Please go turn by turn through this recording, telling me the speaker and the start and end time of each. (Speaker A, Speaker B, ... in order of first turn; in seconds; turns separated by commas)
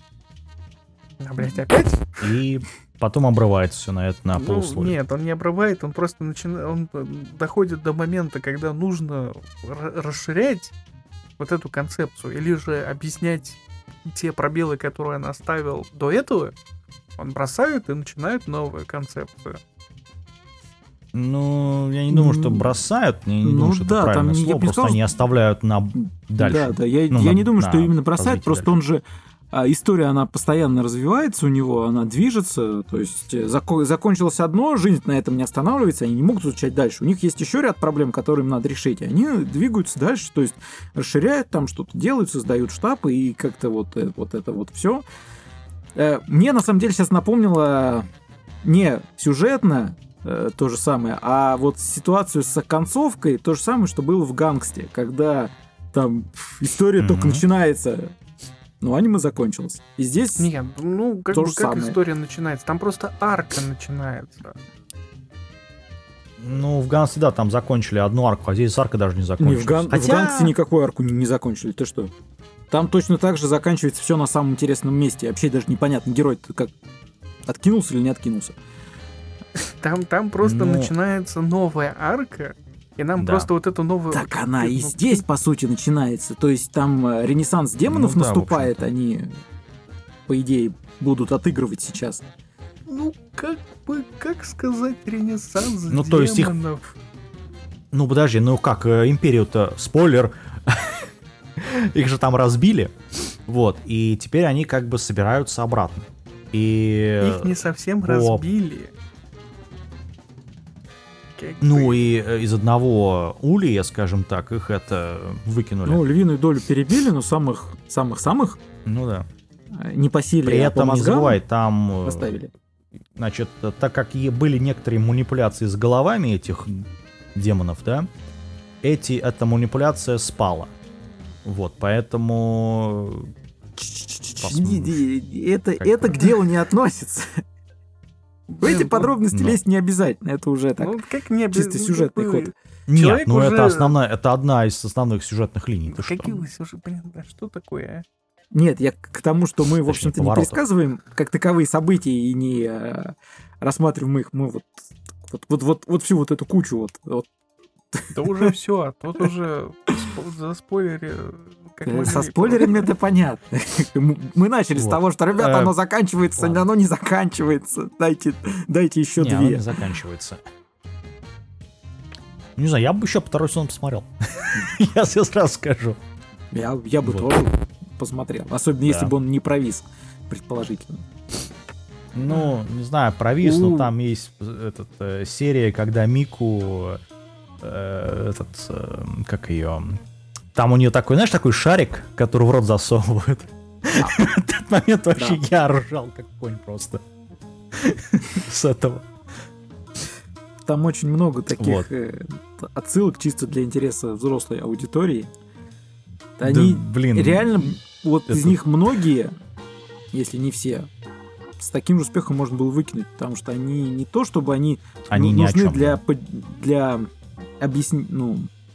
Speaker A: 1.2-2.2, Speaker B: 2.2-5.0, Speaker A: 4.3-10.7, Speaker A: 11.4-16.6, Speaker A: 17.2-19.6, Speaker B: 21.1-28.7, Speaker C: 22.1-22.8, Speaker C: 23.4-25.0, Speaker C: 26.0-45.0, Speaker C: 45.9-48.1, Speaker C: 48.6-58.1, Speaker B: 57.0-57.4, Speaker C: 58.8-60.5, Speaker A: 60.4-64.6, Speaker C: 61.3-62.0, Speaker B: 66.4-70.5, Speaker C: 69.4-72.1, Speaker C: 72.7-76.7, Speaker C: 77.5-78.6, Speaker A: 79.5-85.2, Speaker B: 80.4-80.9, Speaker B: 83.2-83.5, Speaker C: 84.1-89.4, Speaker B: 87.8-88.8, Speaker C: 90.3-92.2, Speaker A: 92.9-96.9, Speaker B: 95.9-96.5, Speaker B: 97.9-102.9, Speaker B: 103.5-108.4, Speaker A: 107.2-108.9, Speaker A: 111.4-112.1, Speaker B: 111.6-116.0, Speaker C: 115.8-118.6, Speaker B: 118.8-119.3, Speaker C: 119.7-121.4, Speaker B: 120.4-122.3, Speaker C: 122.0-122.5, Speaker B: 123.2-128.1, Speaker B: 128.8-130.7, Speaker B: 131.4-133.3, Speaker C: 133.8-137.4, Speaker B: 134.4-135.1, Speaker B: 135.8-136.3, Speaker A: 138.5-139.1, Speaker C: 138.6-140.9, Speaker B: 139.3-139.6, Speaker A: 140.8-143.9, Speaker C: 141.5-142.4, Speaker B: 142.9-146.4, Speaker A: 145.9-148.0, Speaker C: 148.5-157.3, Speaker B: 149.8-150.6, Speaker C: 157.9-158.5, Speaker A: 158.1-162.9, Speaker C: 161.8-169.7, Speaker B: 164.8-165.7, Speaker B: 166.4-166.6, Speaker B: 169.2-170.4, Speaker B: 172.6-176.0, Speaker C: 176.5-181.1, Speaker B: 177.0-177.3, Speaker B: 178.8-179.1, Speaker B: 182.1-187.0, Speaker C: 183.4-183.9, Speaker B: 187.6-190.0, Speaker B: 190.5-197.0, Speaker C: 195.2-195.4, Speaker B: 197.7-199.1, Speaker C: 200.7-205.3, Speaker B: 201.6-201.9, Speaker C: 206.4-209.3, Speaker B: 206.4-207.8, Speaker B: 208.3-208.6, Speaker C: 210.1-210.9, Speaker C: 211.6-218.5, Speaker B: 215.1-216.0